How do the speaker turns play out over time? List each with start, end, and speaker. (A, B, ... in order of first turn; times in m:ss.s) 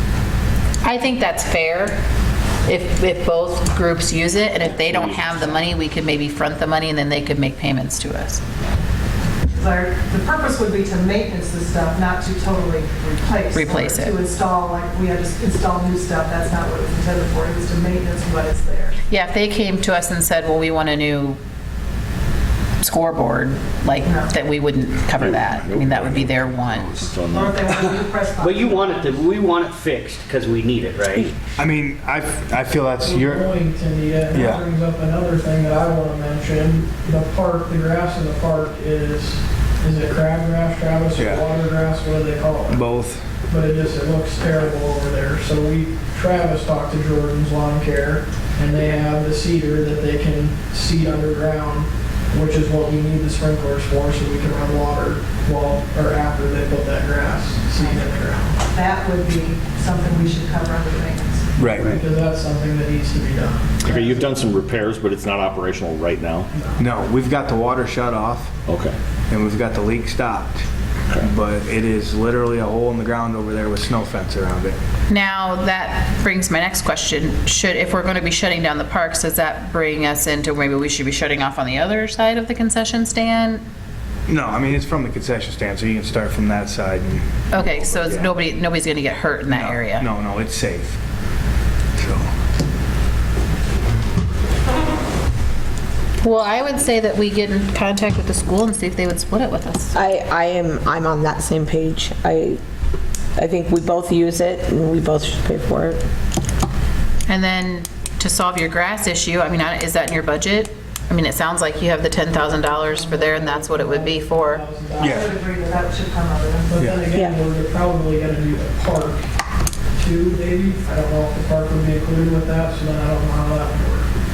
0:00.8-0:02.0 A
0:02.6-0:08.4 A
0:04.6-0:05.7 B
0:09.5-0:19.0 C
0:13.5-0:14.2 A
0:19.1-0:21.4 A
0:22.8-0:26.9 A
0:24.0-0:24.3 C
0:25.2-0:27.9 B
0:27.3-0:29.3 C
0:28.4-0:31.4 D
0:31.6-0:33.5 E
0:33.0-0:42.8 F
0:34.3-0:34.6 E
0:41.2-0:41.4 E
0:42.7-0:43.3 E
0:43.5-0:58.6 F
0:57.8-0:58.0 C
0:58.7-1:01.5 C
1:01.6-1:01.9 E
1:01.9-1:03.9 F
1:03.8-1:06.5 B
1:06.5-1:06.8 F
1:06.8-1:08.5 E
1:08.6-1:09.0 B
1:09.3-1:10.6 E
1:11.2-1:14.8 E
1:15.1-1:23.6 A
1:24.3-1:28.4 E
1:27.5-1:30.1 A
1:29.5-1:31.0 E
1:31.9-1:32.3 E
1:36.2-1:40.0 A
1:39.9-1:42.6 G
1:43.4-1:46.0 G
1:47.3-1:54.6 A
1:52.7-1:55.2 F
1:55.0-1:56.8 C
1:55.0-1:55.3 E
1:56.7-1:59.2 F
2:00.0-2:04.1 F